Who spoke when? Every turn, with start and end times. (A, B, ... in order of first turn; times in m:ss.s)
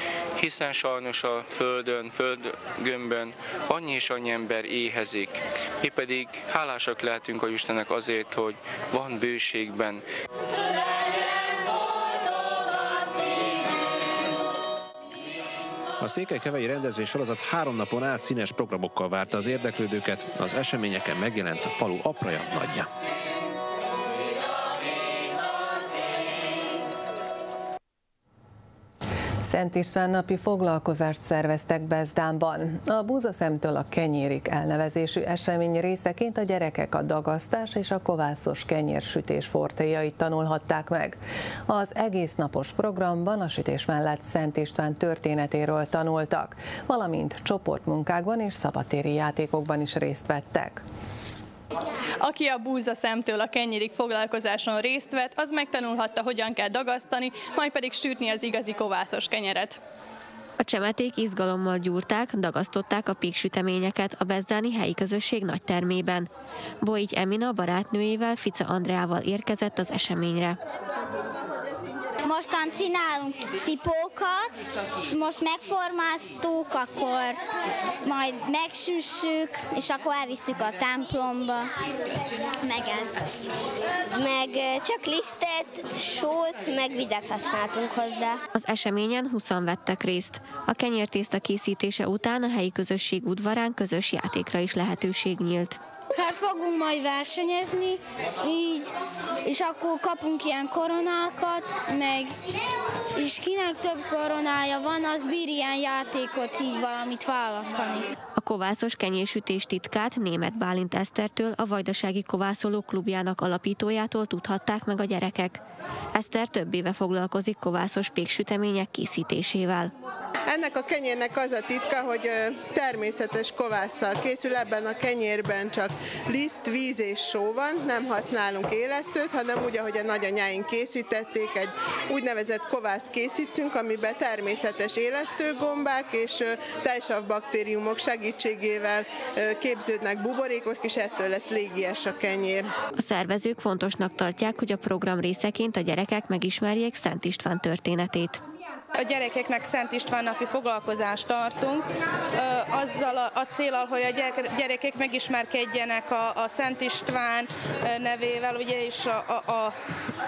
0:00.4-0:10.0 A
0:16.0-0:22.9 B
0:29.4-0:50.8 C
0:52.2-0:59.8 D
1:00.6-1:06.3 E
1:06.8-1:10.6 E
1:12.2-1:14.5 F
1:15.1-1:17.4 F
1:18.0-1:21.7 F
1:22.6-1:23.2 F
1:24.1-1:28.4 F
1:28.5-1:35.8 E
1:36.2-1:38.9 F
1:39.4-1:42.3 F
1:43.2-1:48.0 F
1:48.4-1:55.6 E
1:56.1-1:59.9 E
2:00.4-2:22.7 G
2:23.0-2:28.4 E
2:28.9-2:31.8 H
2:32.4-2:39.7 H